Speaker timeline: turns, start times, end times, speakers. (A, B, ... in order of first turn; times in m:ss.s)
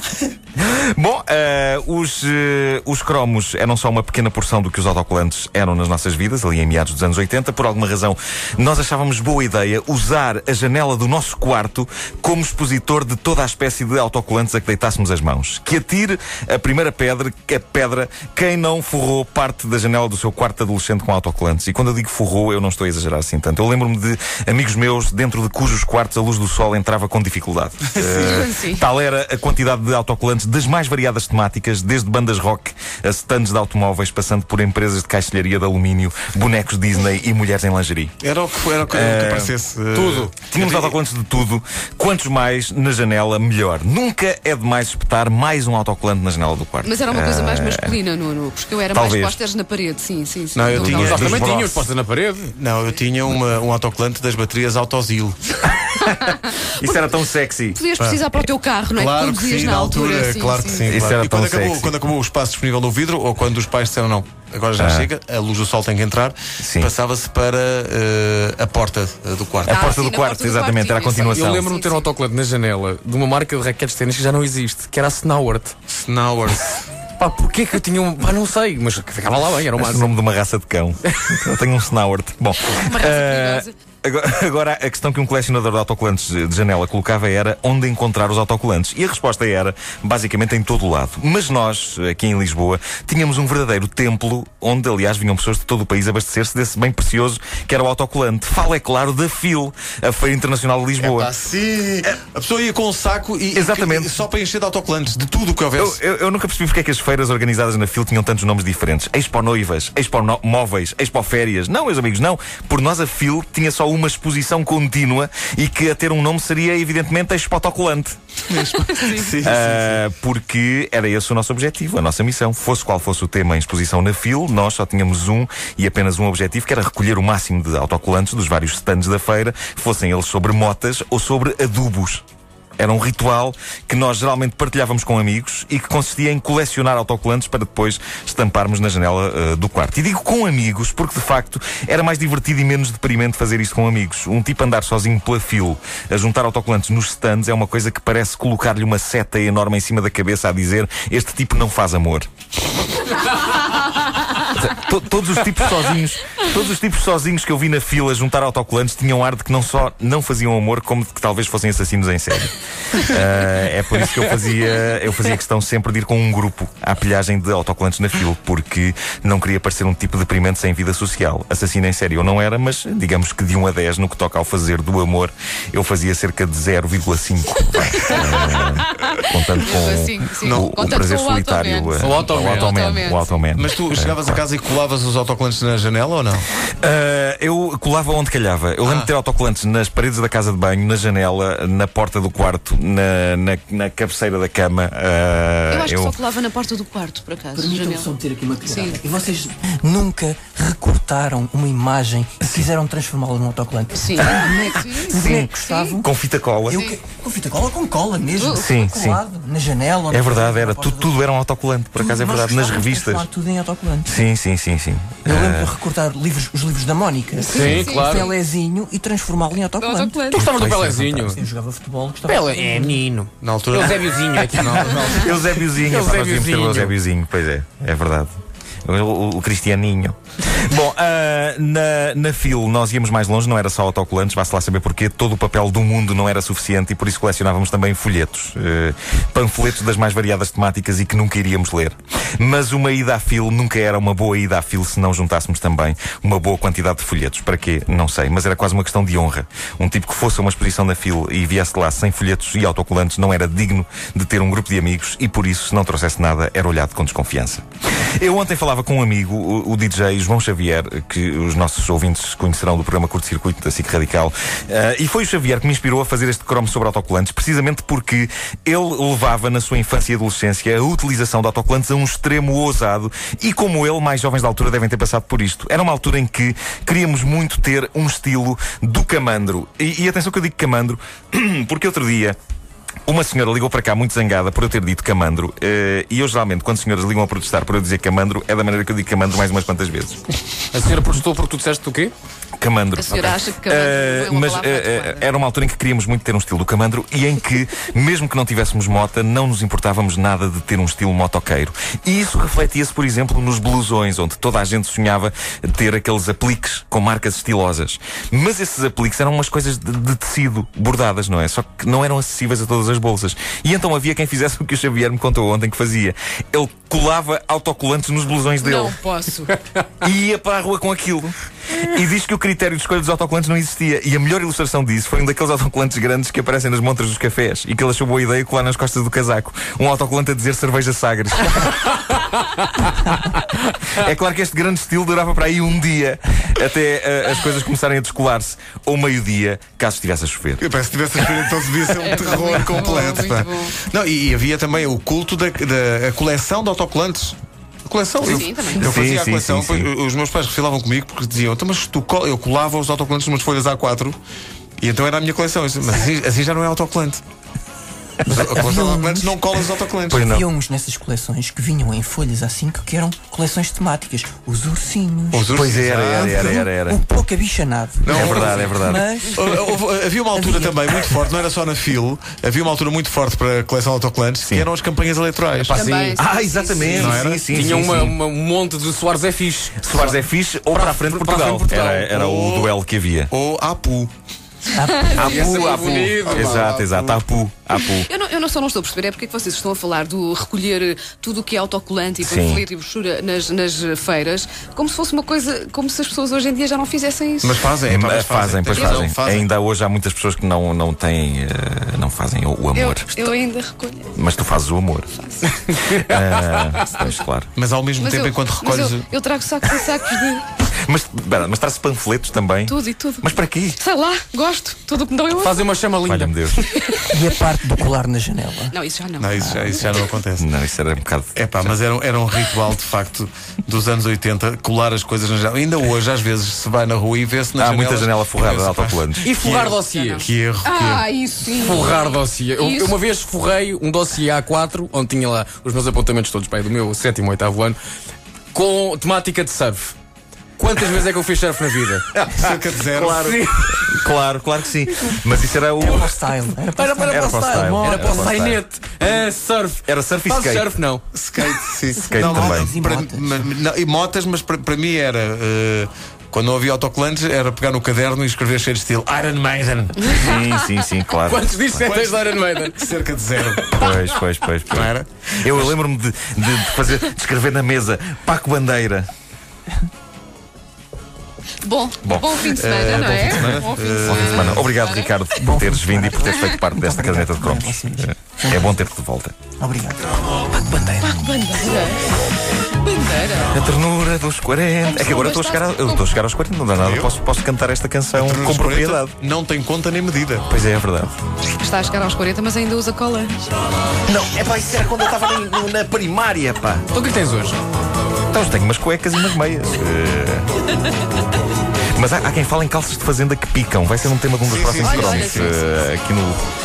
0:00.6-0:38.2 A
0:27.9-0:28.5 B
0:28.2-0:28.8 C
0:38.2-0:41.0 B
0:38.8-0:39.6 A
0:39.9-0:40.3 D
0:40.5-0:48.0 A
0:46.8-0:51.1 C
0:48.9-0:49.4 A
0:50.5-0:51.6 B
0:50.8-0:51.9 A
0:50.8-0:52.5 D
0:52.5-0:55.6 B
0:55.9-0:57.8 A
0:56.3-0:57.0 C
0:57.7-1:01.0 C
0:58.0-0:58.3 B
0:58.9-1:09.9 B
1:00.9-1:01.9 A
1:04.8-1:05.1 A
1:06.6-1:06.9 A
1:09.6-1:11.7 A
1:09.7-1:12.1 C
1:11.3-1:15.8 D
1:15.9-1:16.8 B
1:17.2-1:20.2 D
1:19.7-1:41.3 A
1:22.7-1:23.7 C
1:41.0-1:46.0 B
1:43.5-1:44.1 A
1:45.8-1:58.2 A
1:58.5-2:00.0 B
1:58.8-1:59.3 C
1:59.4-2:12.2 A
2:12.8-2:32.3 A
2:34.4-3:04.4 A
2:58.0-2:58.9 C
2:59.6-3:03.5 C
3:00.4-3:00.8 B
3:02.0-3:03.1 D
3:03.6-3:06.5 B
3:06.8-3:16.2 A
3:08.8-3:09.1 B
3:15.7-3:18.1 C
3:17.6-3:26.1 E
3:18.6-3:19.0 C
3:22.4-3:22.7 A
3:23.9-3:25.9 C
3:25.1-3:27.0 A
3:26.7-3:31.2 E
3:28.4-3:28.7 C
3:28.5-3:29.2 A
3:30.1-3:33.3 A
3:32.0-3:34.1 E
3:34.0-3:35.7 A
3:35.2-3:40.6 E
3:37.4-3:38.3 D
3:37.6-3:38.3 C
3:39.7-3:40.5 C
3:40.3-3:41.4 D
3:40.3-3:41.2 A
3:41.1-3:43.0 E
3:42.3-3:47.0 D
3:43.4-3:45.4 B
3:45.1-3:48.3 A
3:48.8-4:17.6 A
4:18.2-4:42.4 A
4:43.1-4:50.2 A
4:50.7-4:52.1 D
4:52.6-5:19.0 A
4:53.0-4:55.3 C
5:18.6-5:19.5 C
5:20.0-5:32.0 A
5:33.9-5:40.6 A
5:40.6-5:54.2 B
5:41.9-5:43.8 C
5:48.2-5:48.9 C
5:48.8-5:49.9 A
5:54.8-5:57.2 B
5:58.2-6:00.2 B
5:58.3-5:59.5 E
6:00.1-6:00.5 A
6:00.1-6:10.9 E
6:05.3-6:06.6 B
6:05.5-6:07.0 A
6:08.0-6:08.8 B
6:08.1-6:09.1 A
6:09.3-6:15.8 B
6:15.7-6:16.2 D
6:15.7-6:17.0 C
6:16.2-6:18.2 A
6:16.8-6:22.1 D
6:16.8-6:17.4 B
6:19.8-6:23.3 A
6:22.0-6:22.8 B
6:23.3-6:24.1 B
6:24.7-6:25.2 E
6:25.0-6:26.0 C
6:25.1-6:26.7 D
6:25.1-6:28.1 A
6:25.8-6:27.2 B
6:27.8-6:37.6 C
6:32.2-6:32.6 A
6:37.4-6:39.5 B
6:37.9-6:43.4 A
6:38.7-6:39.0 C
6:42.8-6:44.1 C
6:44.1-6:45.1 A
6:45.2-6:45.6 C
6:45.5-6:46.9 D
6:45.8-6:47.5 A
6:47.6-6:49.1 B
6:48.0-6:50.5 C
6:50.6-6:53.8 A
6:52.7-6:55.8 C
6:55.4-6:57.1 D
6:56.0-6:56.7 A
6:57.0-6:58.8 E
6:58.7-6:59.4 C
6:59.2-7:00.5 B
6:59.3-7:00.0 E
7:00.4-7:01.7 A
7:01.4-7:11.1 B
7:07.6-7:09.4 A
7:09.2-7:10.3 D
7:09.8-7:13.0 C
7:11.5-7:17.8 D
7:18.5-7:19.9 D
7:20.6-7:22.1 D
7:22.1-7:26.2 A
7:22.4-7:23.3 B
7:23.1-7:24.0 D
7:25.8-7:28.4 E
7:26.7-7:31.0 D
7:27.0-7:28.6 A
7:29.9-7:30.7 A
7:31.2-7:40.3 B
7:32.0-7:32.7 A
7:32.1-7:33.3 E
7:40.1-7:41.9 A
7:40.4-7:40.6 D
7:41.2-7:42.9 D
7:41.8-7:43.6 B
7:43.5-7:44.2 D
7:43.7-7:49.1 A
7:44.7-7:45.8 B
7:51.6-7:55.1 C
7:52.0-7:52.4 A
7:52.4-7:54.7 B
7:53.3-7:59.4 A
7:55.4-7:58.8 E
7:59.6-8:01.2 E
8:01.0-8:03.6 C
8:03.5-8:09.2 A
8:04.8-8:06.1 C
8:06.8-8:07.1 B
8:08.2-8:10.5 B
8:10.5-8:11.2 A
8:11.6-8:13.5 C
8:14.1-8:16.9 A
8:16.9-8:17.6 D
8:18.3-8:20.5 A
8:22.0-8:26.4 A
8:24.4-8:25.6 B
8:24.9-8:25.4 C
8:25.1-8:25.5 D